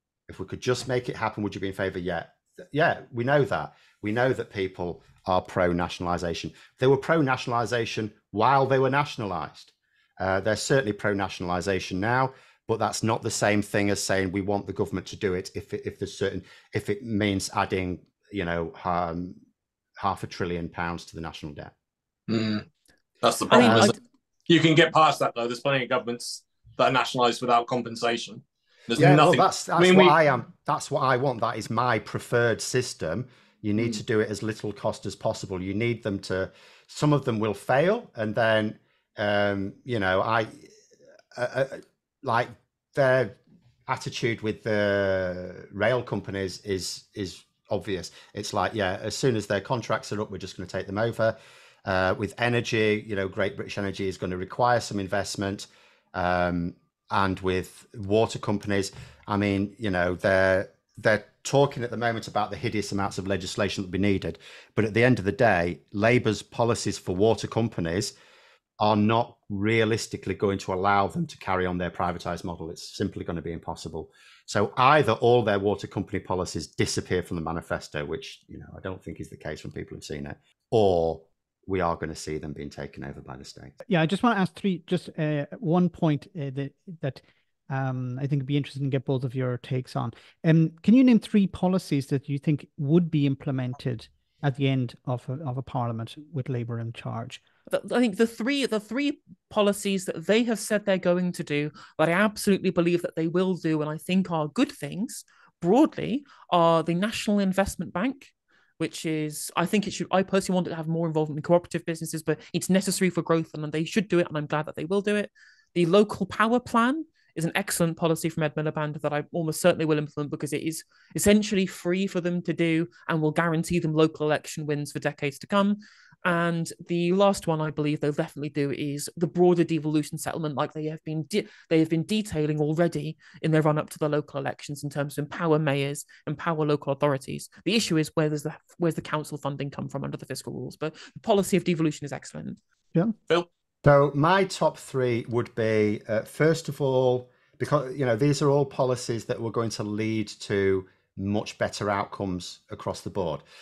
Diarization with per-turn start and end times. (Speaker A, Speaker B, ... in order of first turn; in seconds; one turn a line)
Speaker A: 0.3-19.4
Speaker A: 20.0-21.7
Speaker B: 22.3-22.7
Speaker B: 23.2-24.0
Speaker C: 23.5-24.0
Speaker A: 23.6-23.9
Speaker B: 24.5-30.2
Speaker A: 28.9-40.7
Speaker A: 41.3-43.4
Speaker A: 43.9-68.1
Speaker A: 68.8-83.7
Speaker D: 83.9-97.4
Speaker C: 97.7-142.6
Speaker A: 143.8-153.4